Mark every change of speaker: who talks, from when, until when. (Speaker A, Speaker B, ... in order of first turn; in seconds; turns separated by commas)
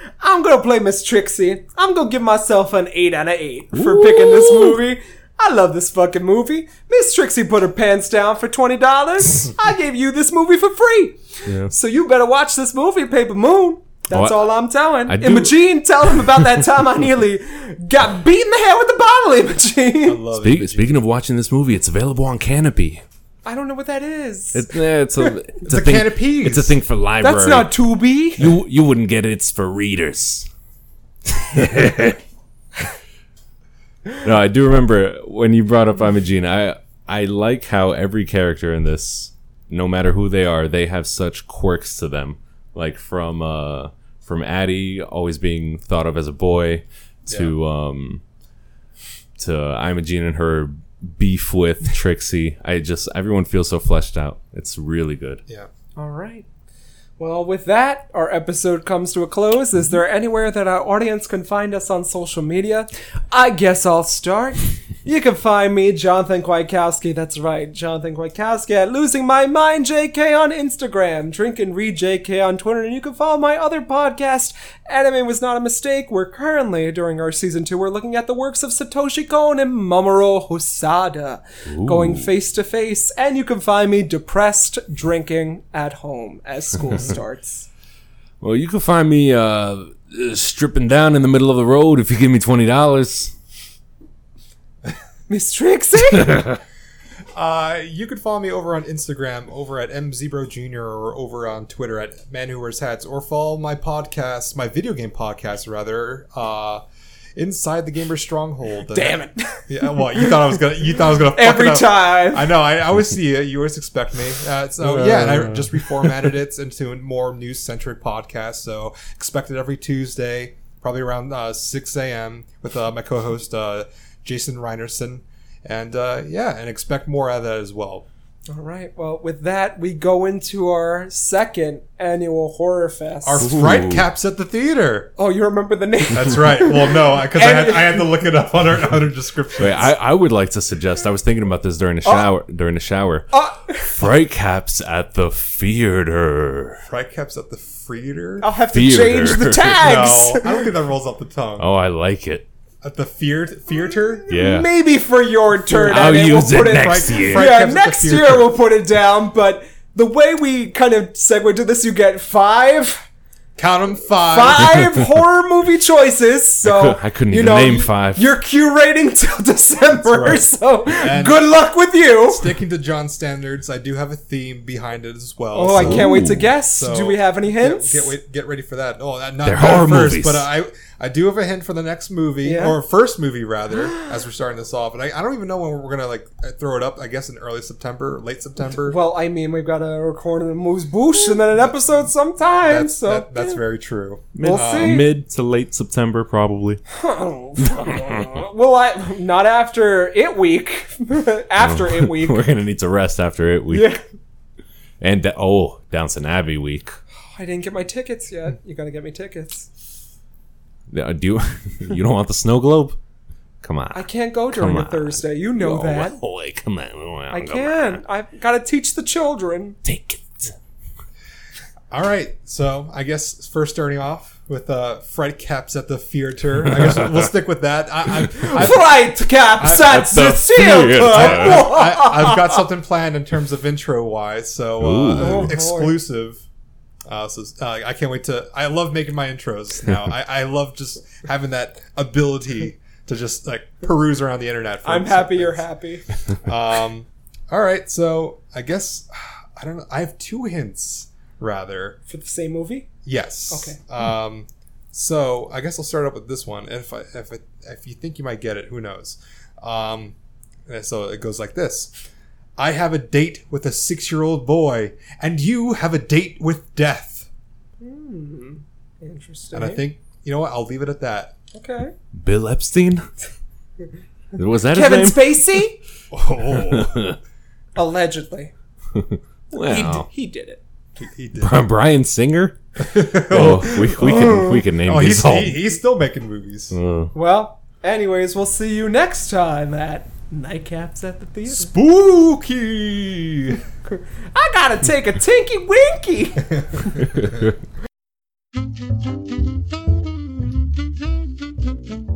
Speaker A: 0.2-20.2, Speaker B: 3.7-4.8, Speaker B: 14.1-16.4, Speaker C: 20.0-21.0, Speaker B: 20.4-23.0, Speaker A: 23.4-24.7, Speaker B: 24.5-27.7, Speaker C: 25.6-26.7, Speaker A: 27.2-28.6, Speaker B: 28.4-30.5, Speaker B: 31.3-32.2, Speaker B: 34.2-48.2, Speaker C: 47.3-47.5, Speaker B: 49.4-55.4, Speaker A: 56.0-56.5, Speaker A: 57.2-87.7, Speaker B: 81.7-82.3, Speaker B: 88.4-93.3, Speaker A: 95.3-96.4, Speaker C: 97.3-106.8, Speaker C: 107.4-128.1, Speaker A: 108.9-112.5, Speaker B: 114.8-116.1, Speaker A: 128.5-133.5, Speaker C: 133.2-135.1, Speaker B: 133.4-134.0, Speaker A: 135.2-138.1, Speaker C: 136.1-139.9, Speaker B: 139.6-146.8, Speaker A: 143.3-144.0, Speaker C: 146.9-148.5, Speaker A: 148.4-150.6, Speaker B: 148.7-149.8, Speaker C: 149.8-151.7, Speaker B: 151.6-152.5, Speaker C: 152.8-154.3, Speaker A: 154.3-163.1, Speaker B: 154.3-154.7, Speaker B: 155.7-157.5, Speaker C: 155.8-158.5, Speaker C: 163.6-164.9, Speaker A: 164.2-172.5, Speaker B: 166.7-168.2, Speaker C: 169.9-171.4, Speaker C: 172.2-189.0, Speaker A: 175.5-178.1, Speaker B: 175.7-176.5, Speaker B: 179.4-180.5, Speaker A: 182.4-182.8, Speaker A: 188.8-193.6, Speaker C: 192.6-195.1, Speaker B: 194.3-196.8, Speaker A: 194.4-195.1, Speaker A: 196.9-202.4, Speaker B: 197.7-198.4, Speaker B: 201.6-203.9, Speaker A: 203.7-204.0, Speaker B: 205.0-207.0, Speaker A: 207.3-209.7, Speaker B: 210.9-213.0, Speaker B: 213.6-218.0, Speaker A: 213.9-216.2, Speaker A: 217.3-219.8, Speaker B: 219.8-220.5, Speaker C: 221.9-230.0, Speaker A: 228.3-232.7, Speaker B: 229.7-231.7, Speaker C: 231.0-236.4, Speaker B: 234.8-235.6, Speaker A: 235.2-236.0, Speaker C: 237.1-245.7, Speaker A: 244.8-246.1, Speaker C: 246.3-252.0, Speaker A: 252.1-252.9, Speaker C: 253.1-260.1, Speaker A: 253.5-253.8, Speaker C: 260.7-261.9, Speaker C: 262.6-267.3, Speaker A: 267.8-269.8, Speaker C: 269.5-271.3, Speaker A: 271.5-271.9, Speaker B: 272.1-273.1, Speaker B: 274.4-275.7, Speaker A: 274.7-275.8, Speaker C: 276.1-277.0, Speaker B: 276.5-277.2, Speaker A: 277.8-278.5, Speaker B: 278.9-280.1, Speaker A: 279.5-280.6, Speaker C: 281.0-281.6, Speaker B: 281.4-285.6, Speaker C: 282.8-286.8, Speaker A: 283.9-284.6, Speaker B: 286.7-287.1, Speaker A: 287.1-291.7, Speaker C: 291.5-293.6, Speaker A: 293.9-297.1